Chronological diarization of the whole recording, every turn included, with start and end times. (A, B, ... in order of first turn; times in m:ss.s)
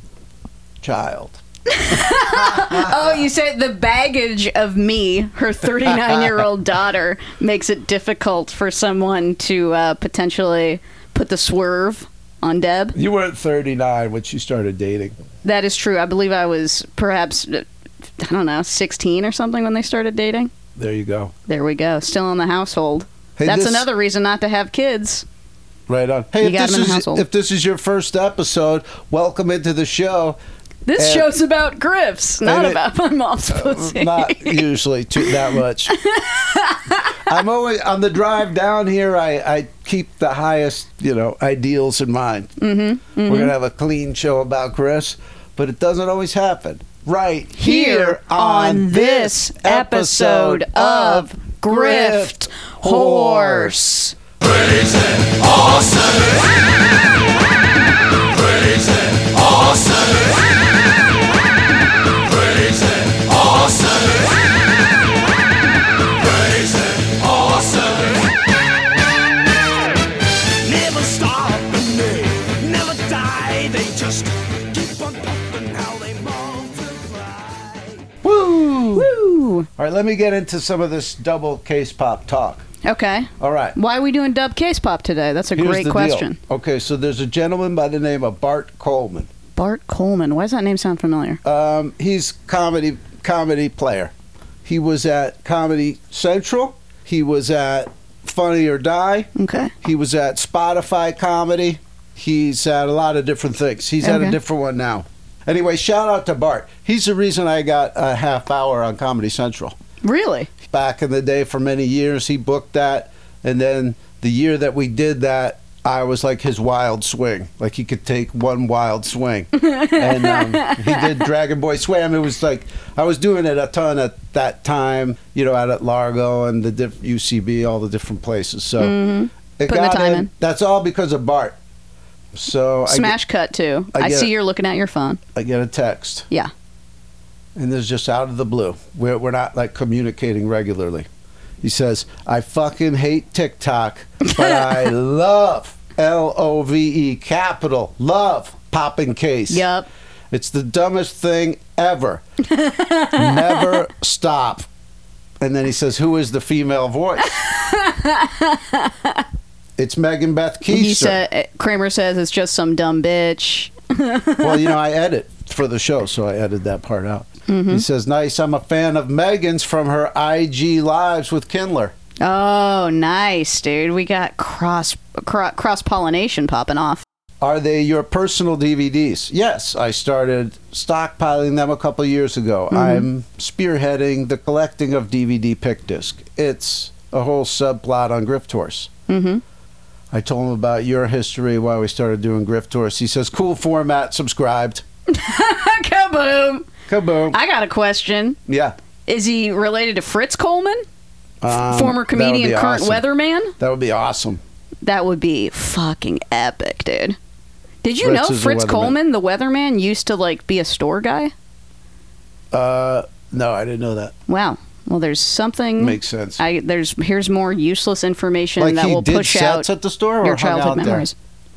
0:00.8-0:02.9 A
0:01.7-0:13.0 B
0:12.9-0:15.2 A
0:15.4-0:17.6 B
0:18.2-0:20.5 B
0:20.8-0:21.3 A
0:21.5-0:25.2 B
0:23.4-0:23.8 A
0:25.9-0:30.4 A
0:26.4-0:27.2 B
0:30.8-0:34.6 B
0:31.0-0:31.3 A
0:32.4-0:32.8 A
0:33.5-0:36.0 A
0:35.2-0:37.1 B
0:37.2-0:42.5 A
0:42.6-0:43.5 B
0:43.2-0:53.8 A
0:47.5-0:54.2 B
0:54.4-0:56.4 C
0:58.3-1:00.4 C
1:02.3-1:04.3 C
1:06.2-1:08.3 C
1:10.5-1:18.0 C
1:18.2-1:19.1 A
1:18.9-1:19.7 B
1:19.8-1:22.6 A
1:22.8-1:26.4 B
1:23.4-1:23.8 A
1:25.5-1:29.3 A
1:29.5-1:31.4 B
1:31.4-1:34.1 A
1:34.6-1:39.3 A
1:39.4-1:39.7 B
1:39.8-1:49.8 A
1:44.0-1:44.4 B
1:50.0-1:50.5 B
1:50.7-2:09.0 A
1:59.6-2:01.2 B
2:08.8-2:10.3 B
2:09.6-2:11.6 A
2:12.3-2:13.2 A
2:12.9-2:15.2 B
2:13.9-2:14.3 A
2:15.3-2:16.3 A
2:17.6-2:21.1 A
2:21.6-2:29.7 A
2:24.4-2:24.6 B
2:29.5-2:29.9 B
2:30.3-2:32.2 A
2:32.4-2:33.8 B
2:33.1-2:34.7 A
2:35.4-2:37.4 A
2:37.3-2:39.2 B
2:39.8-2:41.2 A
2:40.7-2:44.7 B
2:44.4-2:51.9 A
2:47.5-2:47.8 B
2:52.2-2:57.0 B
2:57.4-3:08.9 A
3:02.7-3:03.0 B
3:09.1-3:09.4 B
3:10.1-3:14.8 A
3:15.1-3:16.7 B
3:16.9-3:17.4 A
3:17.3-3:18.4 B
3:18.5-3:18.7 A
3:19.1-3:20.8 B
3:21.4-3:23.0 A
3:21.7-3:23.5 B
3:23.6-3:24.4 A
3:24.8-3:27.2 B
3:27.8-3:31.3 B
3:28.0-3:29.0 A
3:32.5-3:34.1 A
3:34.3-3:39.7 B
3:35.8-3:36.4 A
3:38.6-3:41.1 A
3:40.2-3:41.1 B